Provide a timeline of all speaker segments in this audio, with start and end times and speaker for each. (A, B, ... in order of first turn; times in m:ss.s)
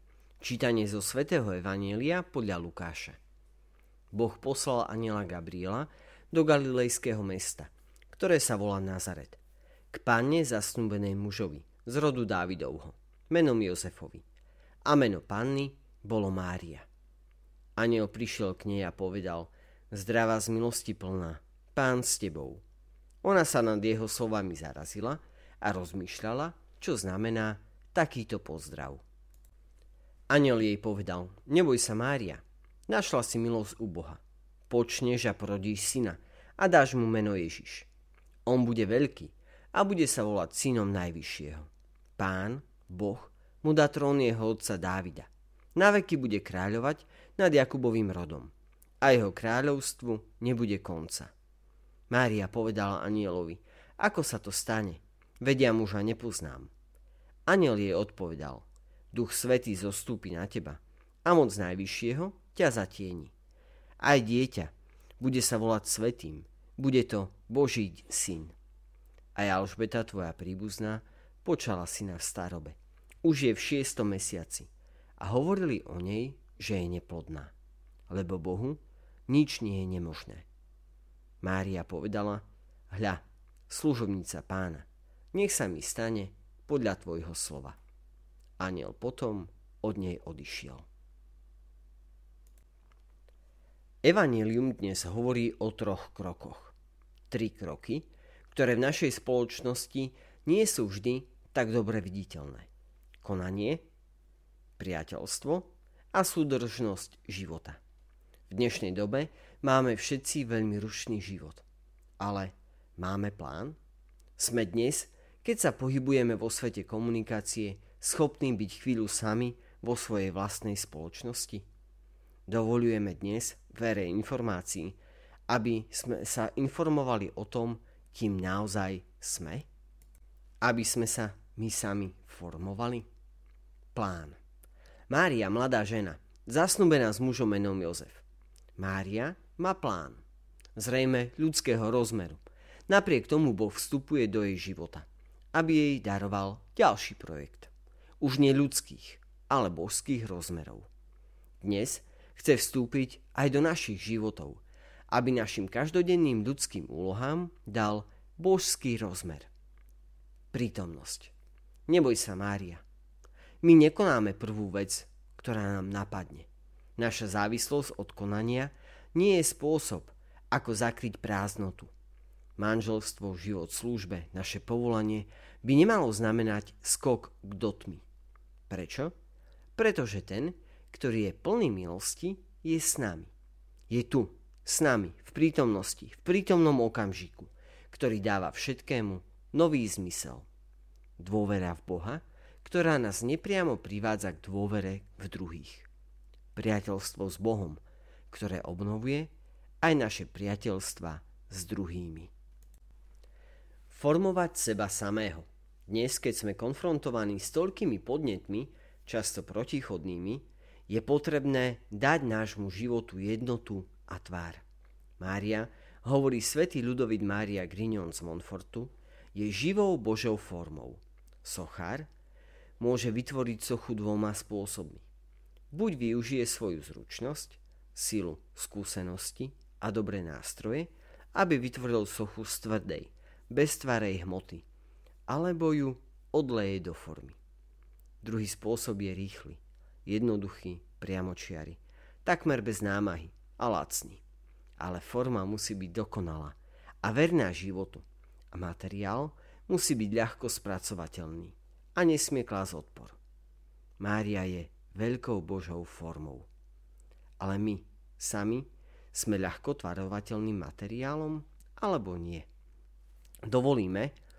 0:00.4-0:03.2 A
0:04.1-0:09.4 A
0:09.9-0:14.2 A
0:14.8-0:16.9 A
0:17.8-0:22.6 A
0:23.2-0:29.0 A
0:30.3-0:37.9 A
0:38.4-0:51.3 A
0:52.1-0:56.7 A
0:57.5-1:03.3 A
1:04.0-1:08.5 A
1:09.3-1:17.5 A
1:18.1-1:20.4 A
1:21.4-1:27.8 A
1:28.6-1:30.8 A
1:34.0-1:36.7 A
1:37.3-1:42.7 A
1:43.2-1:43.8 A
1:44.8-1:47.8 A
1:48.5-1:51.6 A
1:52.2-1:53.8 A
1:54.4-2:01.6 A
2:02.5-2:05.0 A
2:05.5-2:09.6 A
2:10.6-2:13.0 A
2:13.9-2:14.4 A
2:15.1-2:18.2 A
2:18.8-2:20.2 A
2:20.8-2:30.9 A
2:31.6-2:39.5 A
2:40.5-2:41.3 A
2:41.9-2:42.8 A
2:43.6-2:51.9 A
2:52.6-2:58.0 A
2:58.7-2:59.1 A
2:59.8-3:03.3 A
3:03.9-3:10.4 A
3:11.2-3:15.9 A
3:16.5-3:22.3 A
3:23.9-3:34.6 A
3:35.2-3:42.1 A
3:42.8-3:45.0 A
3:45.7-3:54.6 A
3:55.3-3:57.4 A
3:58.2-4:04.2 A
4:04.8-4:13.2 A
4:14.0-4:16.5 A
4:17.4-4:22.5 A
4:23.4-4:24.1 A